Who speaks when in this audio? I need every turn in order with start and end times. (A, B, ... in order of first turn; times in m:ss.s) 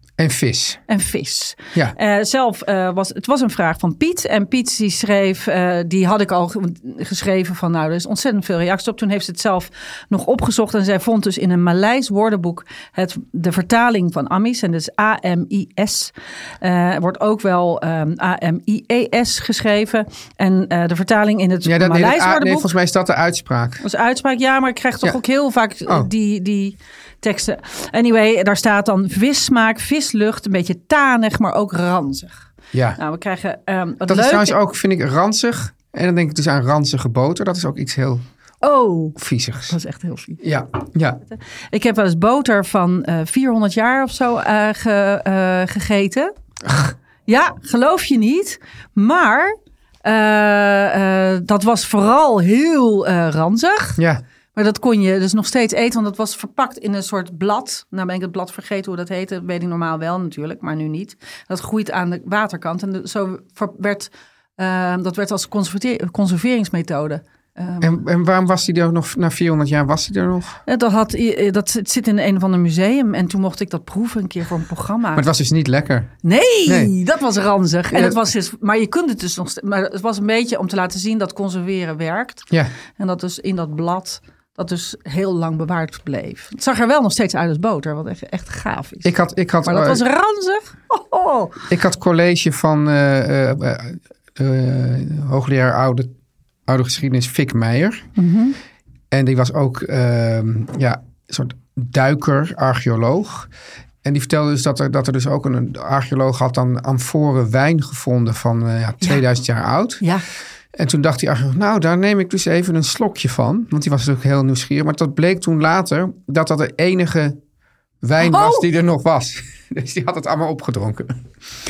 0:00.2-0:00.8 A
0:00.9-0:22.7 B
0:21.6-0:23.8 A
0:23.8-0:32.5 B
0:32.7-0:33.0 A
0:33.0-0:34.6 B
0:34.1-0:38.2 A
0:38.6-0:39.2 B
0:39.2-0:39.8 A
0:39.7-0:40.4 B
0:40.4-0:41.2 A
0:41.7-0:46.3 B
0:47.3-0:54.0 B
0:54.6-1:08.0 B
1:07.8-1:10.6 A
1:10.7-1:15.3 B
1:15.1-1:16.1 A
1:16.2-1:29.1 B
1:16.7-1:16.9 A
1:17.9-1:18.2 A
1:29.0-1:30.0 A
1:29.6-1:31.6 B
1:31.7-1:36.1 A
1:36.7-1:38.1 A
1:38.2-1:38.6 B
1:39.1-1:43.5 A
1:44.0-1:50.0 A
1:50.8-1:57.4 A
1:58.0-2:01.2 A
1:58.2-1:58.7 B